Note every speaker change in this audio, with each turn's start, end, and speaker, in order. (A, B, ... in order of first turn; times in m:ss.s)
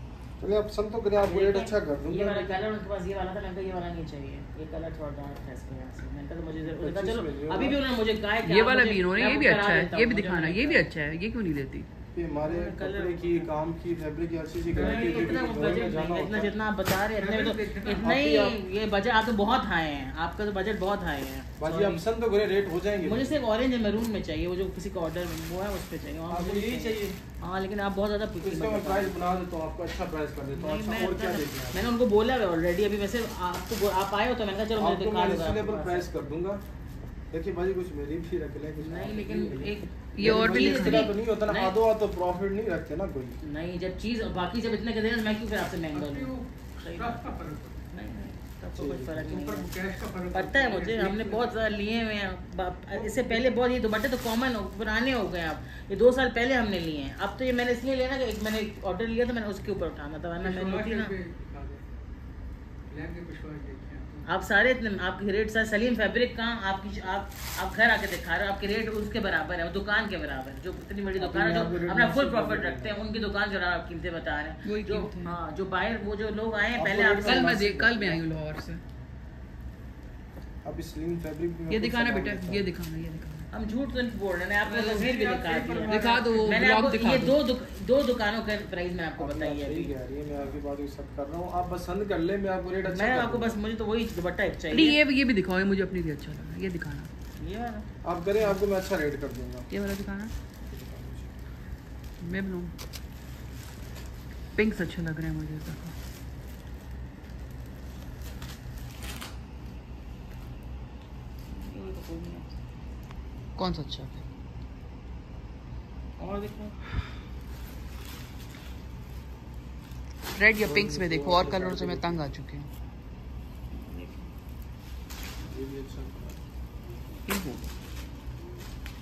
0:00.4-0:02.6 A
0:01.2-0:10.9 B
0:06.6-0:07.8 A
0:08.4-0:11.9 C
0:12.1-0:16.5 A
0:12.4-0:13.6 B
0:14.7-0:22.0 B
0:17.2-0:17.8 C
0:17.8-0:18.6 A
0:21.6-0:23.4 A
0:23.0-0:29.2 B
0:26.3-0:27.2 A
0:28.4-0:31.8 A
0:30.5-0:36.2 B
0:34.8-0:36.6 A
0:37.3-0:43.4 A
0:38.8-0:41.8 B
0:40.2-0:41.1 C
0:43.4-0:49.8 B
0:46.0-0:47.7 C
0:48.8-0:49.3 A
0:49.6-0:51.5 C
0:50.3-1:01.2 B
0:53.0-0:53.4 A
1:00.5-1:01.5 C
1:03.2-1:04.2 C
1:04.2-1:17.7 B
1:11.2-1:13.0 A
1:14.6-1:15.4 C
1:16.8-1:18.2 A
1:17.2-1:18.8 C
1:20.6-1:22.7 A
1:21.7-1:23.5 C
1:23.5-1:30.6 B
1:24.7-1:27.4 C
1:25.5-1:26.4 A
1:29.2-1:33.6 A
1:32.9-1:35.0 B
1:34.7-1:37.1 C
1:37.4-1:37.9 B
1:38.0-1:39.7 A
1:39.7-1:40.3 C
1:40.7-1:41.3 A
1:42.2-1:42.7 C
1:44.6-1:45.9 C
1:51.5-1:52.5 B
1:53.6-1:54.3 C
1:56.2-1:56.8 B
2:00.4-2:02.7 C
2:00.6-2:02.2 A
2:03.7-2:04.3 B
2:05.5-2:06.4 A
2:07.3-2:07.7 C